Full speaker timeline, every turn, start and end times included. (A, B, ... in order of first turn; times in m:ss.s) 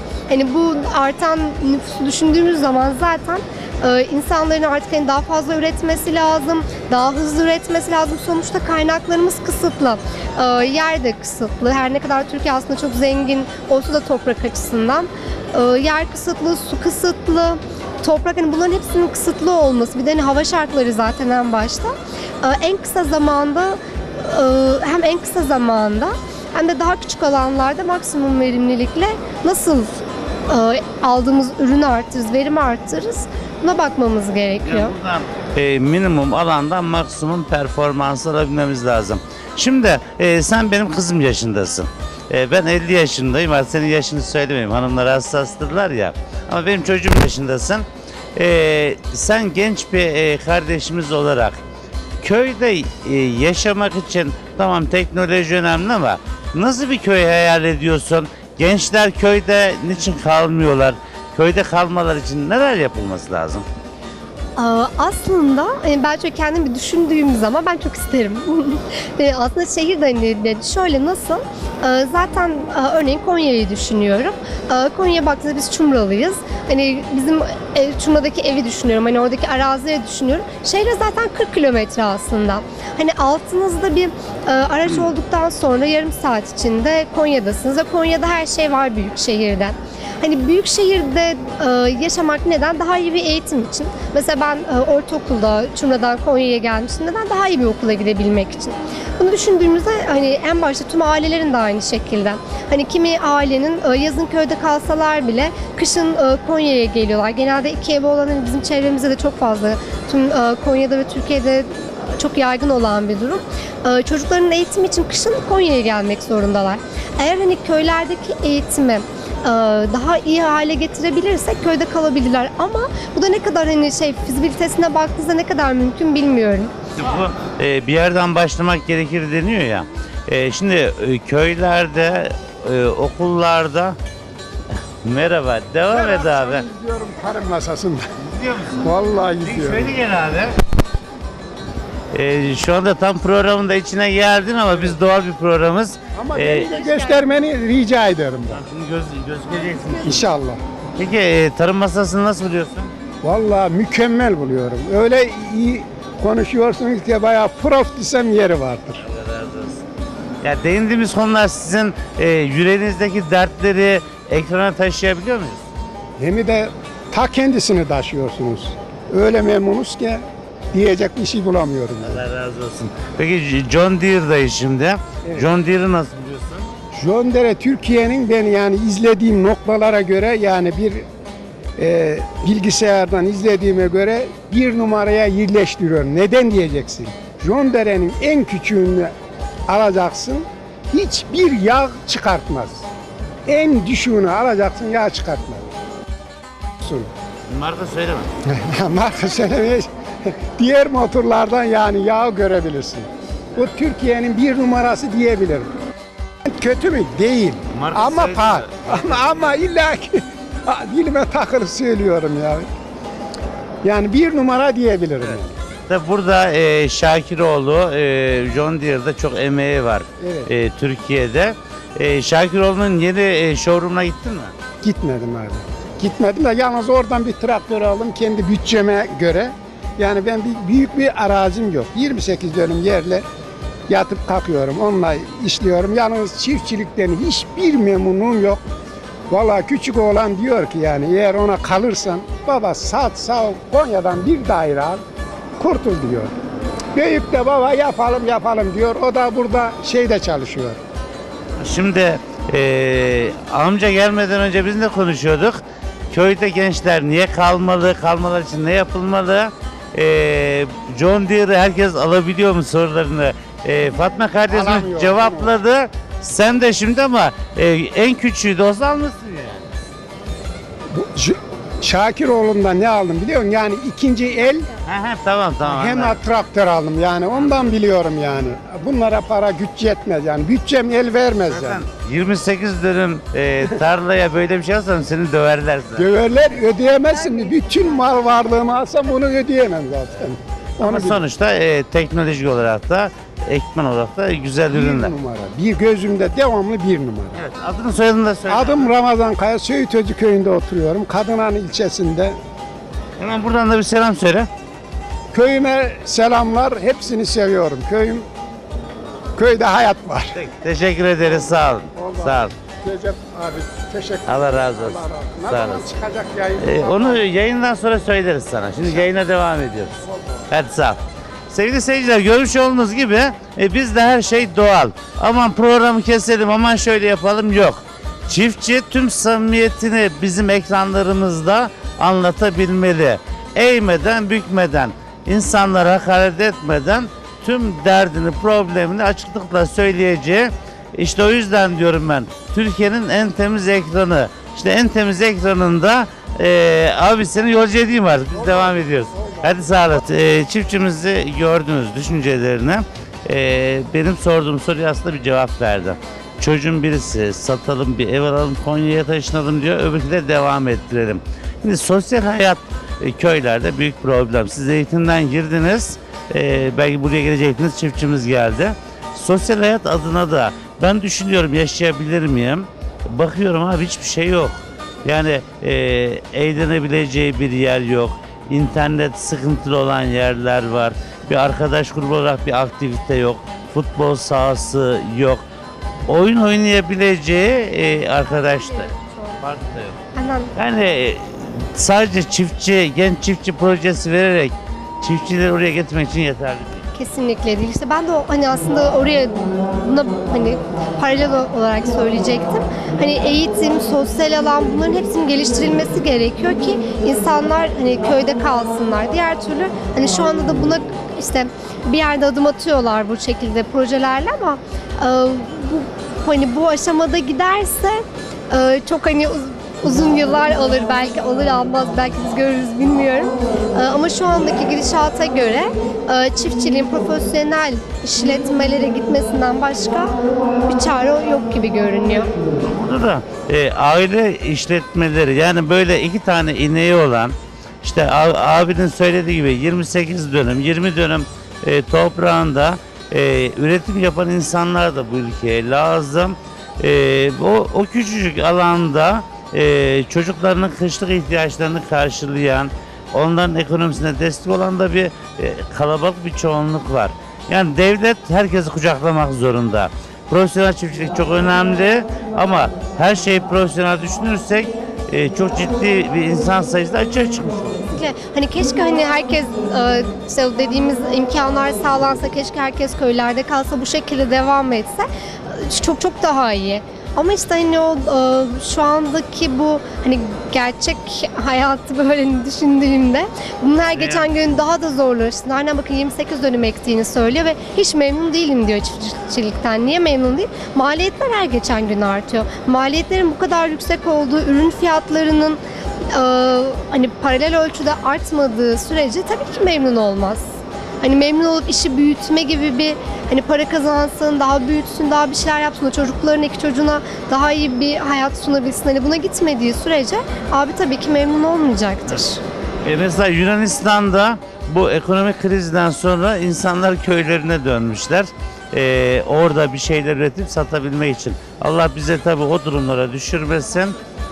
0:00.3-0:34.9 A
0:34.6-0:51.6 B
0:52.2-1:03.6 B
1:04.6-2:06.7 A
2:07.0-2:14.0 B
2:15.0-2:16.6 B
2:15.9-2:18.1 C
2:18.2-2:20.5 B
2:18.7-2:19.9 C
2:22.1-2:27.2 B
2:26.1-2:28.6 C
2:28.5-2:30.2 B
2:30.0-2:30.6 C
2:31.0-2:32.9 B
2:33.2-2:39.0 C
2:39.0-2:39.8 B
2:40.4-2:45.7 B
2:46.2-2:52.2 C
2:52.0-2:56.7 B
2:56.9-3:01.0 C
3:01.8-3:09.1 C
3:09.7-3:12.9 C
3:13.5-3:15.7 C
3:16.8-3:17.1 C
3:17.5-3:18.3 B
3:18.4-3:25.7 C
3:26.4-3:32.7 C
3:27.7-3:29.5 B
3:33.8-3:35.5 C
3:35.9-3:44.5 B
3:40.2-3:40.5 C
3:44.8-3:53.2 C
3:53.9-3:58.6 C
3:59.3-4:05.0 C
4:05.6-4:06.3 C
4:06.9-4:10.8 C
4:11.6-4:29.7 B
4:24.5-4:25.5 C
4:30.9-4:34.7 C
4:34.8-4:36.2 B
4:35.7-4:41.8 C
4:37.4-4:37.6 B
4:41.5-4:46.1 B
4:46.0-4:51.2 C
4:47.1-4:48.3 A
4:50.8-4:55.1 B
4:54.7-4:57.4 C
4:57.3-4:58.9 B
4:58.5-5:02.4 C
5:03.2-5:04.5 B
5:05.3-5:08.2 C
5:09.4-5:10.4 C
5:10.3-5:12.5 B
5:11.9-5:17.2 C
5:14.2-5:15.9 B
5:16.6-5:19.9 B
5:20.0-5:20.4 C
5:20.5-6:25.4 B
5:48.4-5:49.5 C
6:26.1-6:30.0 B
6:28.2-6:29.4 A
6:30.1-6:30.5 A
6:30.5-6:36.8 B
6:36.9-7:10.1 A
7:10.7-7:12.3 A
7:12.6-7:47.8 B
7:47.9-8:15.6 A
8:03.9-8:04.4 B
8:16.1-8:32.4 A
8:32.8-8:44.0 B